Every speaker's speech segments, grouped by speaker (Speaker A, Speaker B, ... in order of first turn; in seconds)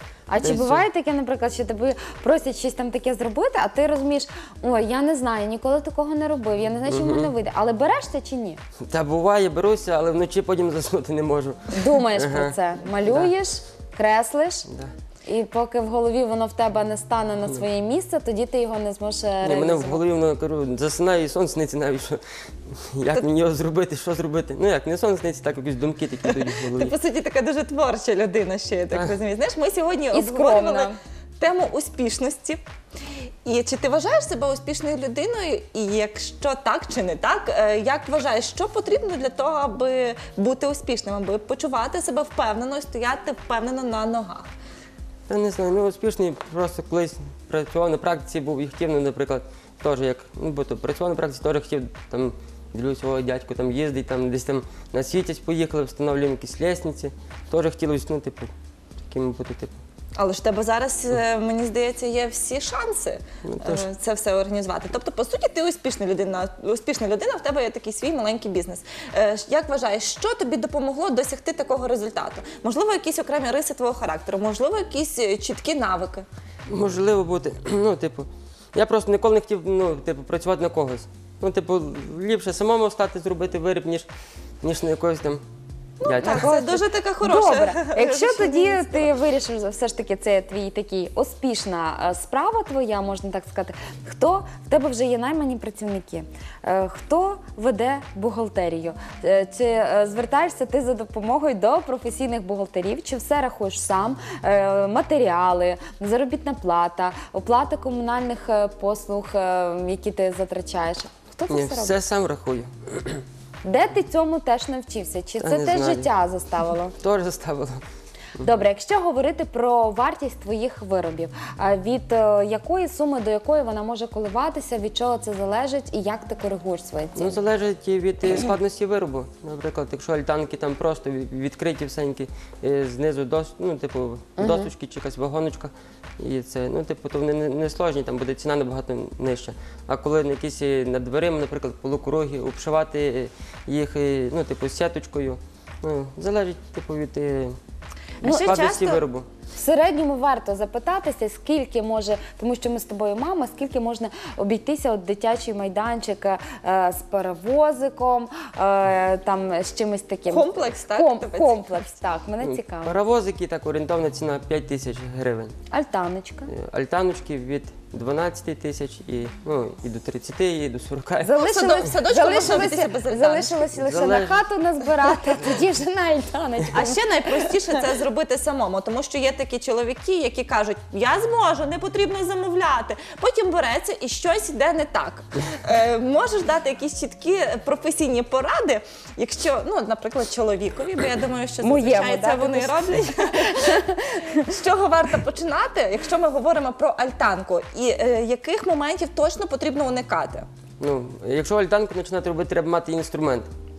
Speaker A: 0.3-8.6, 11.7-14.7, 15.2-20.0, 30.1-30.9, 86.2-112.0, 113.6-117.0, 118.4-127.4, 134.4-134.7, 148.2-148.6, 149.5-162.9, 165.7-166.5, 171.2-177.6, 191.6-194.5
Speaker B: 0.4-0.8, 6.9-7.3, 8.9-13.3, 19.4-26.9, 45.3-58.5, 59.1-59.8, 63.4-63.9, 76.7-84.1, 84.6-85.4, 86.0-86.6, 111.5-113.2, 115.4-116.1, 117.0-117.8, 127.2-147.6, 148.2-149.3, 162.4-165.5, 166.5-171.4, 173.7-174.4, 200.8-203.5
Speaker C: 26.3-32.6, 33.4-44.5, 60.2-76.2, 86.0-89.1, 148.2-149.0, 160.3-161.8, 171.3-173.7, 176.7-193.8, 194.4-200.5